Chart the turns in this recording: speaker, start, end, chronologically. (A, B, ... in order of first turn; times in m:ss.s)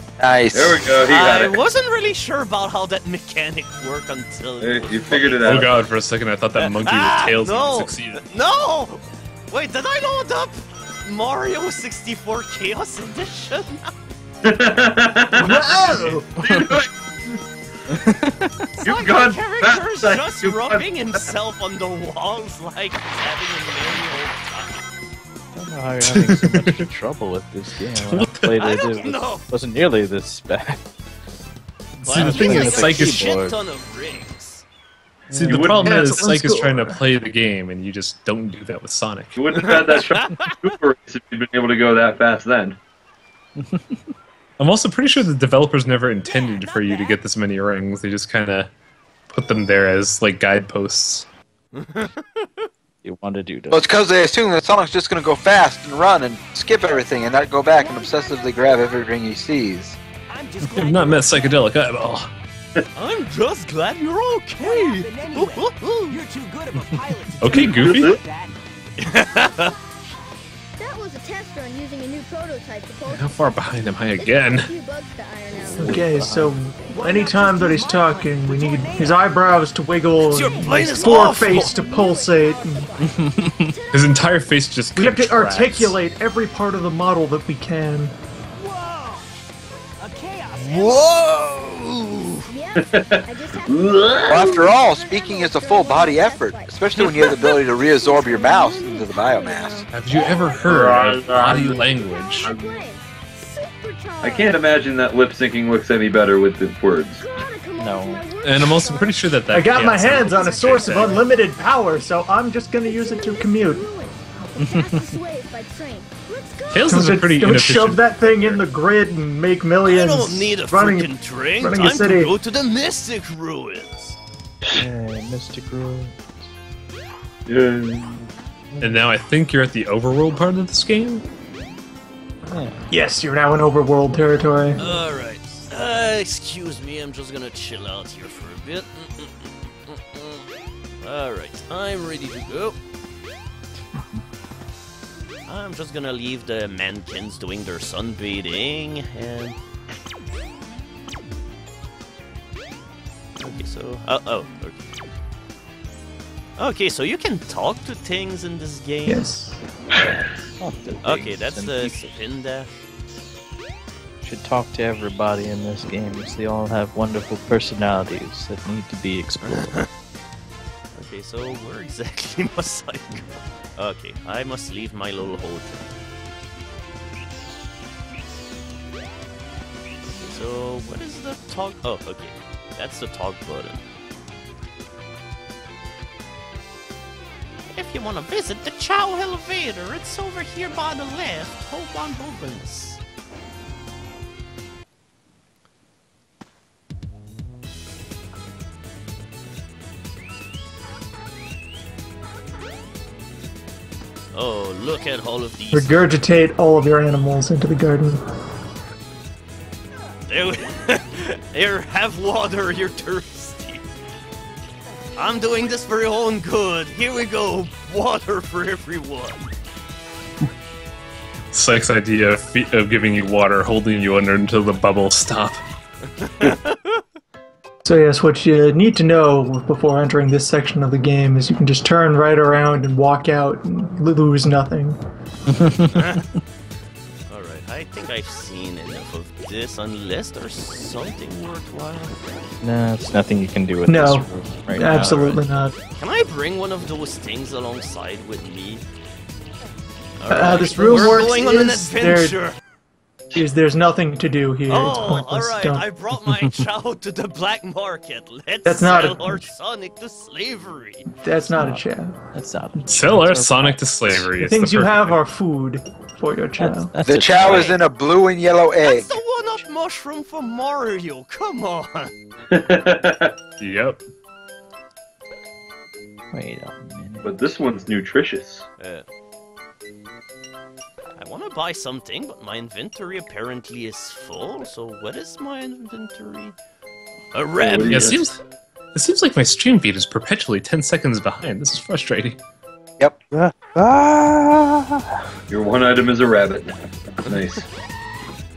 0:00.2-0:00.8 A
0:00.5-0:01.6 B
0:01.0-0:05.7 C
0:04.6-0:05.7 B
0:05.4-0:08.2 D
0:06.6-0:13.8 C
0:14.4-0:17.4 B
0:15.4-0:16.3 E
0:16.4-0:16.7 F
0:17.9-0:18.8 F
0:18.8-0:24.8 C
0:18.8-0:21.3 B
0:25.5-0:30.8 F
0:26.0-0:26.8 D
0:28.0-0:28.5 D
0:28.6-0:29.4 C
0:32.0-0:33.2 D
0:32.0-0:34.6 C
0:32.1-0:33.6 F
0:35.3-0:35.7 F
0:35.3-0:39.4 D
0:35.4-0:37.0 E
0:39.4-0:42.8 B
0:39.7-0:40.5 C
0:43.6-0:44.1 F
0:44.6-0:48.7 D
0:46.2-0:47.2 G
0:49.3-0:51.3 D
0:51.7-0:52.7 C
0:53.0-0:53.9 F
0:53.7-1:00.0 A
0:56.8-0:58.8 G
1:00.3-1:01.6 H
1:00.6-1:02.3 D
1:02.9-1:06.2 C
1:04.6-1:08.5 H
1:07.4-1:08.2 D
1:07.5-1:08.2 B
1:09.0-1:09.7 C
1:10.8-1:13.3 G
1:13.1-1:14.7 D
1:14.2-1:16.0 G
1:15.7-1:22.9 E
1:15.8-1:16.0 B
1:15.8-1:16.6 F
1:16.9-1:19.2 H
1:20.3-1:21.7 C
1:20.3-1:24.1 G
1:20.8-1:21.3 H
1:23.0-1:23.8 F
1:23.9-1:26.0 D
1:25.0-1:28.1 E
1:28.6-1:29.2 H
1:30.0-1:31.0 H
1:30.6-1:32.5 C
1:32.5-1:40.8 G
1:32.7-1:34.6 B
1:34.2-1:39.9 A
1:37.0-1:37.2 C
1:39.9-1:42.5 D
1:40.5-1:41.9 B
1:41.4-1:44.7 G
1:42.4-1:42.8 B
1:44.2-1:47.3 B
1:47.2-1:49.4 G
1:47.8-1:48.2 F
1:48.4-1:51.3 D
1:49.5-1:53.9 E
1:50.1-1:51.2 G
1:52.8-1:56.9 G
1:54.6-1:55.1 F
1:56.7-1:58.4 D
1:56.8-2:02.3 E
1:59.8-2:04.2 C
2:04.7-2:06.4 F
2:07.5-2:08.3 B
2:08.7-2:09.0 F
2:08.8-2:11.2 D
2:12.5-2:12.8 F
2:12.9-2:14.8 E
2:14.8-2:20.5 C
2:21.0-2:22.8 C
2:23.9-2:24.2 F
2:25.5-2:29.6 C
2:33.4-2:34.9 C
2:36.6-2:39.3 C
2:39.0-2:39.6 E
2:40.0-2:42.1 F
2:41.0-2:42.7 C
2:44.2-2:49.8 F
2:49.5-2:49.8 C
2:51.0-2:53.2 C
2:53.8-2:55.8 C
3:00.2-3:03.8 C
3:07.7-3:13.0 C
3:24.3-3:26.1 C
3:25.7-3:28.2 E
3:30.3-3:33.8 C
3:35.2-3:39.5 C
3:41.5-3:45.6 D
3:46.2-3:47.0 C
3:47.8-3:55.0 E
3:55.5-3:56.4 F
3:55.9-3:56.2 C
3:57.3-4:02.2 C
4:02.6-4:05.4 F
4:03.8-4:05.7 E
4:06.0-4:08.8 C
4:10.2-4:12.6 C
4:10.3-4:12.4 E
4:13.3-4:15.8 E
4:14.7-4:21.0 C
4:18.6-4:19.4 E
4:21.2-4:22.2 E
4:21.5-4:24.3 F
4:22.9-4:25.2 D
4:24.4-4:26.9 E
4:26.6-4:27.7 F
4:27.0-4:29.1 A
4:27.4-4:27.8 C
4:28.8-4:32.1 C
4:32.5-4:33.3 B
4:33.6-4:34.0 D
4:36.3-4:37.4 F
4:37.2-4:38.6 B
4:38.8-4:39.0 C
4:41.2-4:46.6 C
4:47.3-4:48.1 C
4:47.6-4:48.3 B
4:47.9-4:48.4 D
4:48.9-4:52.4 D
4:53.3-4:55.0 F
4:55.5-4:57.7 B
4:57.2-4:57.6 C